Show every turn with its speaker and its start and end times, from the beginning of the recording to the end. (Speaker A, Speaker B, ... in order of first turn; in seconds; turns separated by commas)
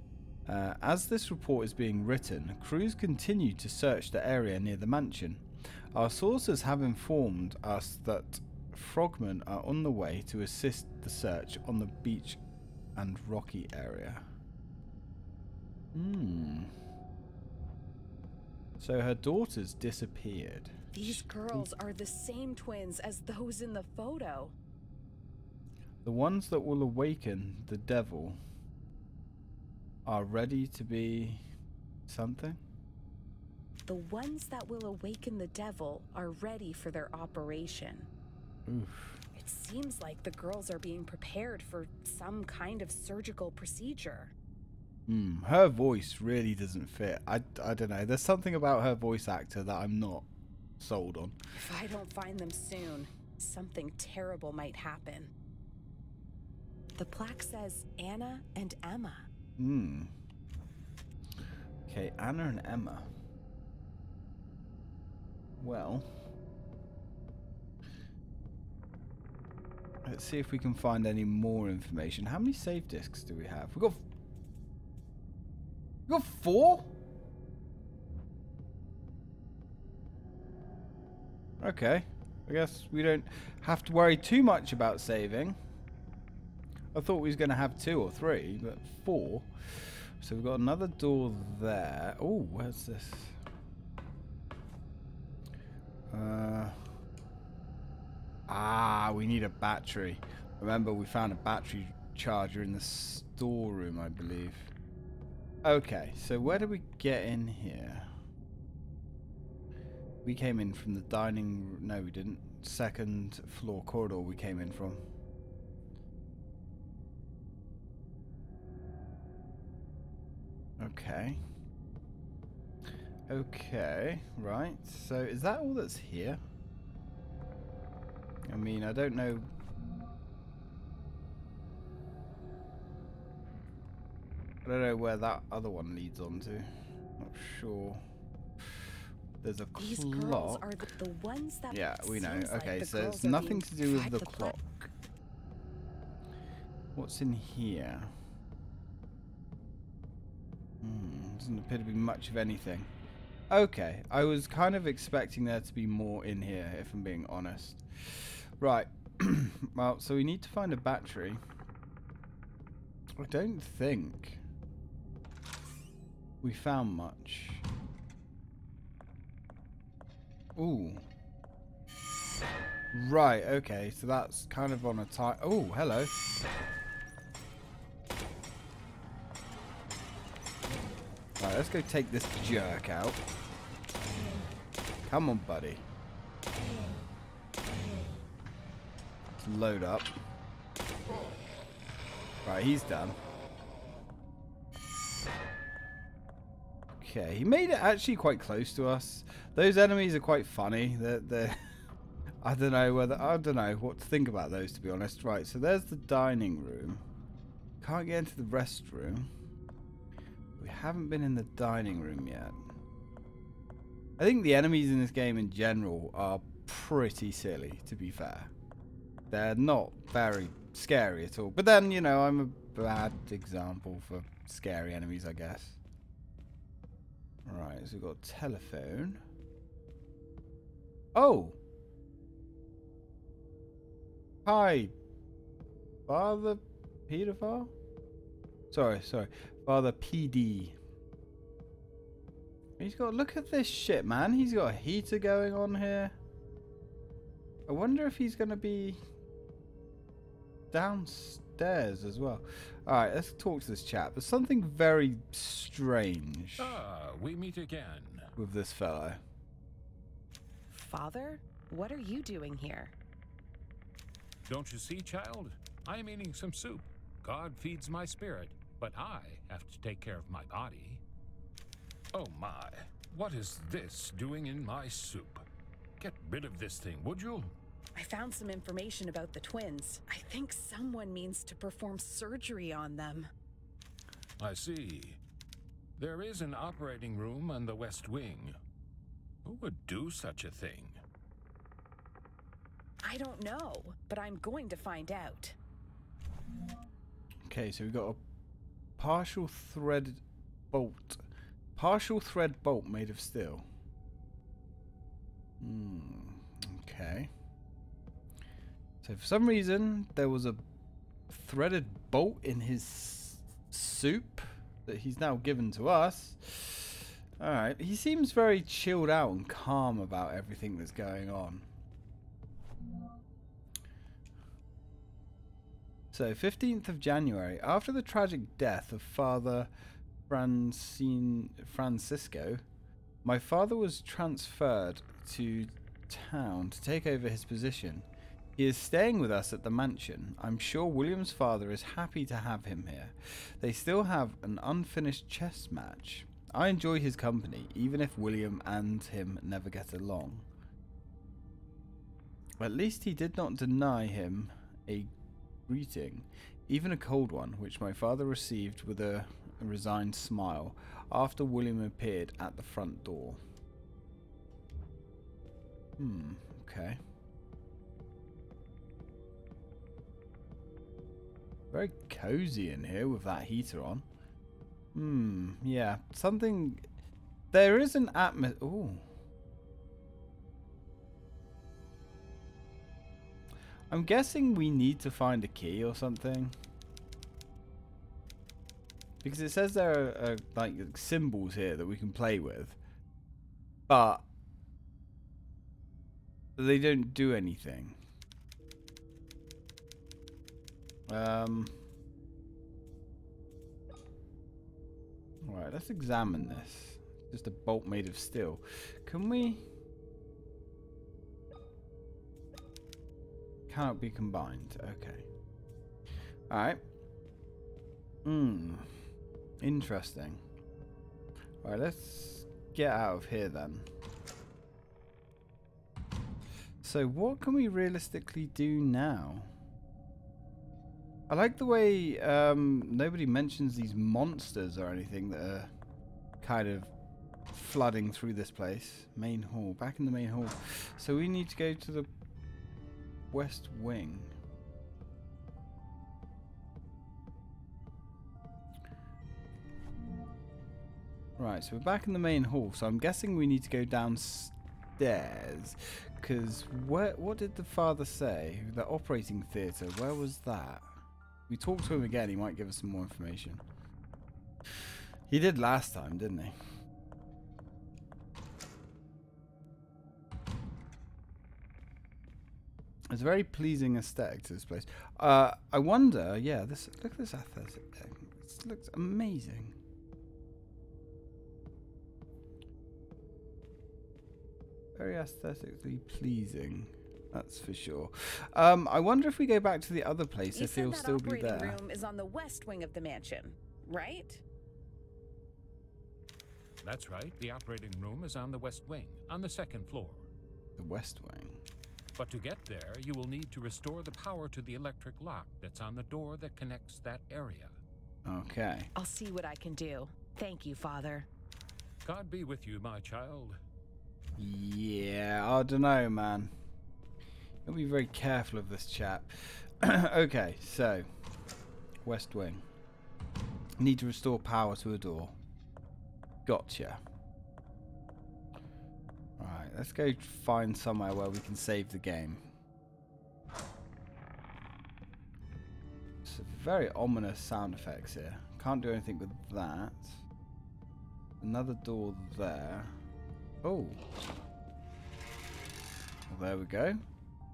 Speaker A: 0.5-12.4, Speaker A: 12.9-14.2, Speaker A: 15.9-16.7, Speaker A: 18.8-21.7, Speaker B: 20.9-24.5, Speaker A: 26.0-28.4, Speaker A: 30.1-31.4, Speaker A: 32.1-32.6, Speaker B: 33.9-38.1, Speaker A: 38.7-39.2, Speaker B: 39.4-44.3, Speaker A: 45.1-50.3, Speaker A: 50.8-51.4, Speaker B: 51.5-55.3, Speaker B: 57.0-59.3, Speaker A: 59.6-60.1, Speaker A: 61.9-63.1, Speaker A: 65.6-66.1, Speaker A: 70.0-74.0, Speaker A: 76.1-76.9, Speaker A: 81.6-85.5, Speaker A: 86.9-93.3, Speaker A: 96.1-96.8, Speaker A: 98.5-104.7, Speaker A: 105.6-108.1, Speaker A: 110.2-115.0, Speaker A: 120.8-121.4, Speaker A: 123.3-126.4, Speaker A: 128.5-129.5, Speaker A: 134.6-136.7, Speaker A: 137.2-138.0, Speaker A: 139.4-140.9, Speaker B: 139.8-144.6, Speaker A: 141.7-144.9, Speaker A: 146.9-148.1, Speaker A: 150.8-152.9, Speaker A: 153.5-161.4, Speaker A: 163.2-164.4, Speaker A: 166.4-167.6, Speaker A: 170.6-171.1, Speaker A: 172.9-176.2, Speaker A: 181.4-183.2, Speaker A: 185.0-185.8, Speaker A: 189.4-190.1, Speaker A: 192.4-193.2, Speaker A: 197.0-201.6, Speaker A: 202.4-207.0, Speaker A: 207.8-209.3, Speaker A: 210.6-212.6, Speaker A: 214.2-218.5, Speaker A: 219.3-225.8, Speaker A: 227.4-229.2, Speaker A: 231.1-231.6, Speaker A: 234.4-234.9, Speaker A: 236.1-237.7, Speaker A: 238.7-240.8, Speaker A: 242.8-246.1, Speaker A: 247.7-249.0, Speaker A: 250.7-256.8, Speaker C: 256.6-258.3, Speaker A: 258.4-259.2, Speaker B: 260.7-262.9, Speaker C: 264.4-271.0, Speaker C: 272.1-275.4, Speaker C: 276.0-277.5, Speaker B: 277.9-283.3, Speaker C: 284.4-285.2, Speaker C: 286.0-288.5, Speaker C: 289.4-291.0, Speaker B: 293.0-295.6, Speaker A: 297.4-298.2, Speaker A: 299.0-301.2, Speaker A: 301.8-303.6, Speaker A: 305.6-307.3, Speaker A: 309.0-310.6, Speaker A: 311.3-321.6, Speaker A: 326.1-329.7, Speaker A: 330.3-332.6, Speaker A: 333.2-338.1, Speaker A: 338.6-350.4, Speaker A: 352.6-355.1, Speaker A: 355.7-363.4, Speaker A: 366.0-367.0, Speaker A: 371.7-374.0, Speaker A: 374.9-376.9, Speaker A: 377.5-379.0, Speaker A: 383.9-386.5, Speaker A: 389.2-392.8, Speaker A: 393.9-394.2, Speaker A: 396.6-398.0, Speaker A: 401.1-401.7, Speaker A: 405.4-409.6, Speaker A: 413.7-415.3, Speaker A: 416.5-416.8, Speaker A: 418.2-418.9, Speaker A: 419.6-420.4, Speaker A: 421.6-423.9, Speaker A: 426.8-429.5, Speaker A: 431.3-435.7, Speaker A: 436.4-436.9, Speaker A: 437.5-442.1, Speaker A: 443.3-444.3, Speaker A: 451.4-460.9, Speaker A: 461.5-463.6, Speaker A: 465.3-466.5, Speaker A: 473.1-479.7, Speaker A: 485.0-491.8, Speaker B: 490.5-494.4, Speaker C: 496.8-500.3, Speaker A: 500.8-501.6, Speaker C: 502.1-507.7, Speaker A: 508.2-508.9, Speaker B: 508.9-511.3, Speaker C: 512.0-513.6, Speaker A: 514.4-516.5, Speaker A: 517.6-521.0, Speaker A: 522.0-522.6, Speaker A: 523.8-525.4, Speaker A: 526.5-527.0, Speaker A: 529.4-532.4, Speaker A: 536.2-540.2, Speaker A: 541.4-543.0, Speaker A: 543.6-544.0, Speaker A: 546.3-547.0